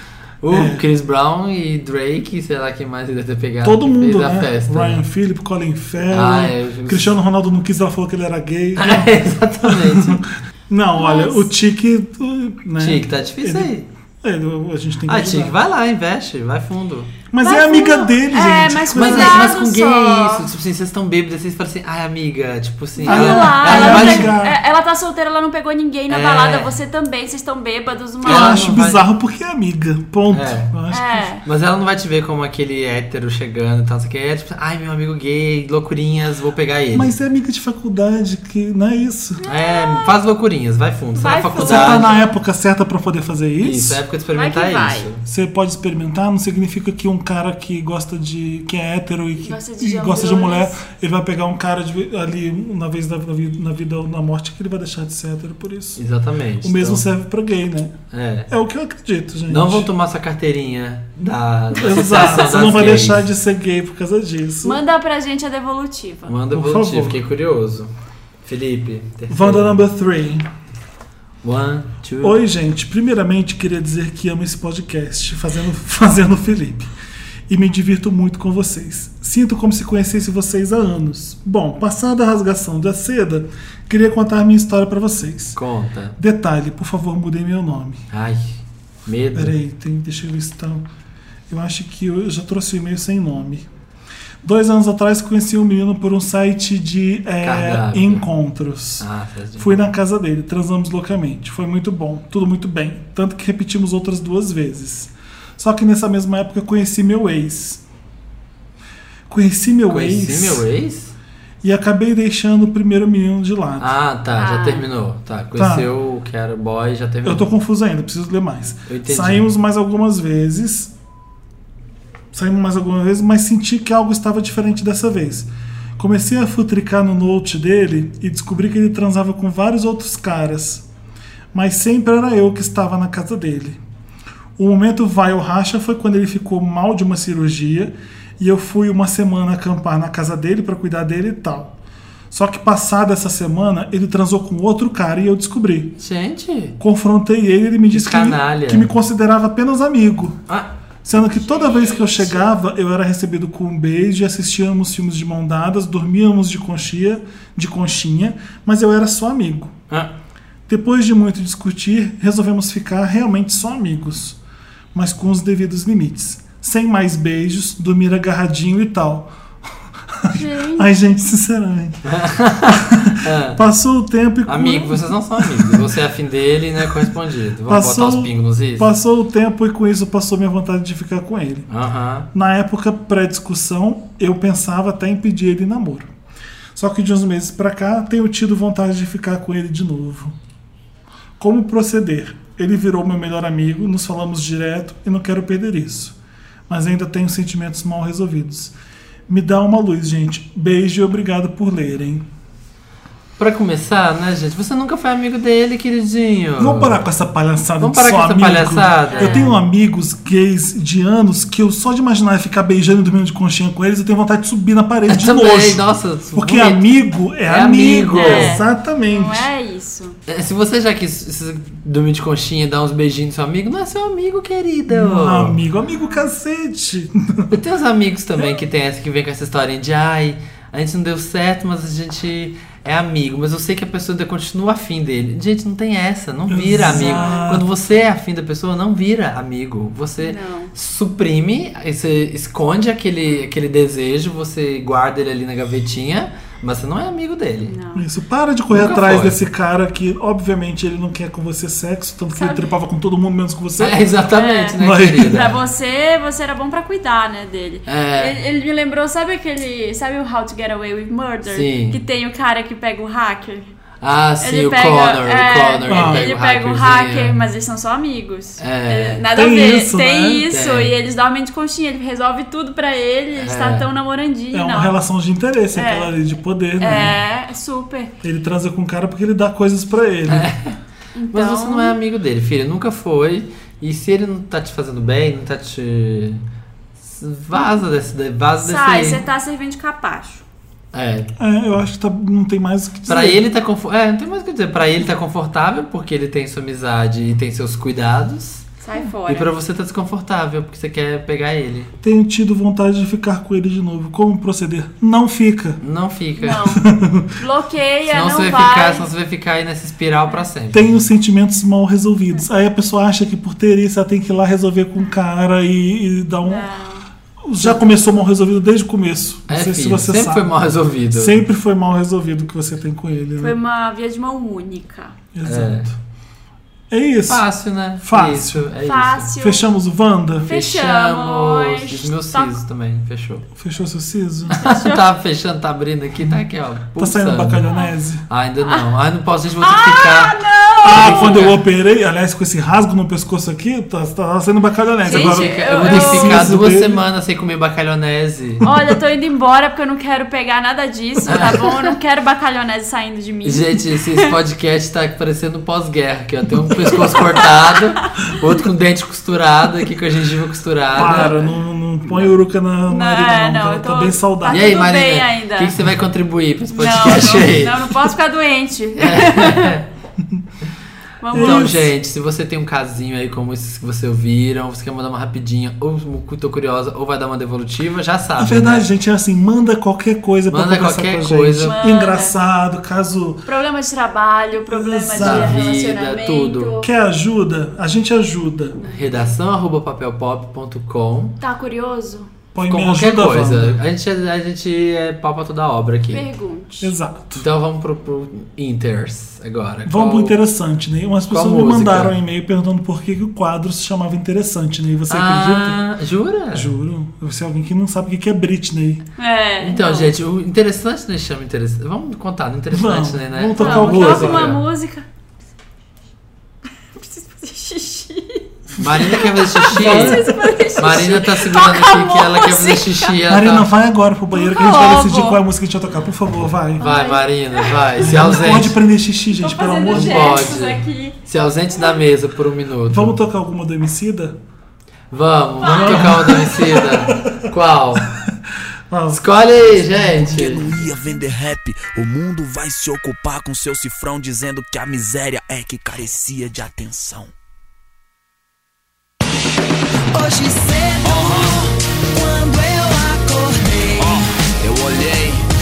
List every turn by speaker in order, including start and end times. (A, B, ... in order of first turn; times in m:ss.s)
0:00.4-0:05.0 A
0:00.5-0:00.8 B
0:03.6-0:15.5 B
0:06.1-0:07.1 A
0:08.8-0:10.2 A
0:11.0-0:11.5 C
0:12.8-0:13.9 A
0:15.1-0:17.1 A
0:17.3-0:19.5 B
0:17.4-0:20.5 C
0:18.9-0:24.4 A
0:23.0-0:28.7 C
0:23.0-0:24.6 B
0:26.1-0:26.7 A
0:28.2-0:29.0 A
0:28.2-0:31.3 B
0:30.3-0:30.7 A
0:30.9-0:31.4 C
0:31.4-0:37.1 A
0:36.9-0:39.4 B
0:39.4-0:40.1 C
0:39.5-0:42.1 A
0:41.1-0:42.3 C
0:41.5-0:44.0 B
0:43.6-0:45.2 A
0:44.3-0:45.1 C
0:45.2-0:56.0 B
0:49.4-0:50.8 C
0:56.0-0:57.0 A
0:56.6-0:58.0 B
0:58.1-0:58.5 A
0:58.5-0:59.9 B
0:59.5-1:03.2 A
1:01.7-1:04.8 B
1:04.6-1:06.3 C
1:06.3-1:07.9 A
1:06.5-1:07.2 B
1:08.4-1:09.8 A
1:09.3-1:10.5 B
1:11.4-1:12.4 A
1:12.2-1:16.9 B
1:17.5-1:25.6 B
1:25.6-1:26.2 A
1:26.2-1:28.0 B
1:28.1-1:29.5 A
1:29.3-1:30.8 B
1:31.5-1:33.7 B
1:34.4-1:47.8 B
1:37.4-1:38.2 A
1:39.0-1:39.8 A
1:49.3-1:50.6 B
1:49.9-1:51.1 A
1:51.6-1:53.9 B
1:53.8-1:57.4 A
1:54.4-1:54.8 C
1:55.6-1:55.9 B
1:57.2-2:00.9 B
1:58.9-1:59.4 A
2:02.3-2:10.8 B
2:11.5-2:13.8 B
2:14.6-2:21.7 B
2:22.3-2:25.9 B
2:26.0-2:26.7 A
2:26.8-2:30.4 B
2:27.9-2:28.9 A
2:31.0-2:39.7 B
2:31.3-2:32.5 C
2:40.7-2:44.4 B
2:44.9-2:49.3 B
2:50.1-2:52.0 B
2:50.3-2:51.1 C
2:52.0-2:53.6 A
2:52.7-2:55.9 B
2:54.4-2:58.9 A
2:57.7-3:01.7 B
3:01.7-3:02.3 A
3:02.3-3:06.1 B
3:06.7-3:10.3 B
3:11.4-3:16.2 B
3:16.7-3:18.7 B
3:19.3-3:22.3 B
3:23.4-3:27.0 A
3:26.6-3:35.8 B
3:27.8-3:29.4 A
3:29.1-3:29.6 C
3:35.1-3:36.8 A
3:36.3-3:39.5 B
3:37.4-3:38.6 A
3:38.1-3:40.2 C
3:40.3-3:45.6 A
3:44.9-3:47.6 B
3:47.5-4:07.7 A
3:56.5-3:57.7 B
3:56.8-3:57.4 C
4:00.2-4:00.7 C
4:07.6-4:08.0 C
4:07.9-4:14.0 B
4:08.7-4:09.4 A
4:12.3-4:12.7 C
4:13.8-4:15.6 A
4:14.3-4:23.7 C
4:14.8-4:15.5 B
4:17.8-4:18.4 A
4:21.4-4:22.0 A
4:24.0-4:27.4 A
4:24.4-4:35.0 C
4:25.9-4:26.3 B
4:28.6-4:29.2 A
4:29.3-4:30.4 B
4:30.5-4:30.9 A
4:33.4-4:33.9 A
4:34.5-4:37.2 B
4:35.7-4:36.1 C
4:36.8-4:38.1 C
4:38.2-4:40.5 B
4:40.3-4:40.7 A
4:41.1-4:42.0 C
4:41.3-4:46.4 A
4:47.0-4:49.2 A
4:48.6-4:50.4 C
4:50.9-4:51.3 A
4:51.4-4:53.4 B
4:53.1-4:58.7 A
4:58.8-4:59.5 C
4:59.3-5:01.9 A
5:02.0-5:05.8 B
5:05.8-5:06.6 A
5:06.4-5:09.0 C
5:06.5-5:07.3 B
5:08.1-5:10.9 A
5:10.7-5:16.7 B
5:16.4-5:17.1 C
5:17.4-5:20.5 B
5:19.5-5:21.4 A
5:21.1-5:23.6 B
5:23.4-5:25.1 C
5:25.3-5:26.0 B
5:25.4-5:25.9 A
5:26.9-5:27.4 B
5:27.3-5:29.3 A
5:28.0-5:28.7 B
5:28.8-5:29.6 C
5:29.4-5:30.5 B
5:30.4-5:32.6 C
5:30.5-5:33.4 A
5:33.6-5:34.6 B
5:34.6-5:35.0 C
5:34.6-5:37.7 A
5:37.0-5:38.2 B
5:38.3-5:41.6 A
5:39.6-5:41.4 C
5:40.8-5:47.0 B
5:45.0-5:46.5 C
5:45.1-5:48.6 A
5:48.6-5:54.3 C
5:51.3-5:51.6 A
5:53.4-6:01.3 A
6:00.9-6:04.8 B
6:01.0-6:01.5 C
6:02.9-6:05.7 C
6:04.5-6:08.0 A
6:06.7-6:09.8 C
6:09.0-6:09.8 A
6:11.2-6:11.8 C
6:11.3-6:11.9 B
6:11.3-6:18.9 A
6:18.4-6:23.4 B
6:20.5-6:21.8 A
6:21.6-6:22.3 C
6:23.4-6:26.9 C
6:24.6-6:25.6 B
6:25.2-6:26.7 A
6:26.8-6:28.8 B
6:28.8-6:29.0 C
6:28.8-6:31.4 A
6:31.4-6:32.3 C
6:32.5-6:33.8 B
6:32.7-6:36.2 A
6:36.1-6:36.9 C
6:36.8-6:37.4 B
6:37.4-6:40.4 A
6:39.8-6:45.8 B
6:41.3-6:42.1 A
6:45.1-6:46.7 A
6:46.5-6:49.0 B
6:49.2-6:50.1 C
6:49.6-6:54.6 A
6:52.7-6:54.6 B
6:53.6-6:55.0 C
6:56.9-6:58.4 C
6:58.7-7:00.6 B
6:58.8-7:03.7 A
6:59.0-7:03.1 C
7:03.3-7:06.8 B
7:04.3-7:05.4 C
7:06.8-7:08.2 C
7:06.8-7:08.8 A
7:08.0-7:10.6 B
7:09.4-7:11.2 C
7:09.9-7:13.2 A
7:12.9-7:14.4 B
7:15.1-7:18.1 A
7:15.6-7:16.3 C
7:15.6-7:17.4 B
7:18.9-7:20.7 B
7:19.1-7:20.7 A
7:20.3-7:27.3 D
7:30.1-7:34.2 E
7:31.0-7:31.6 D
7:34.0-7:35.4 D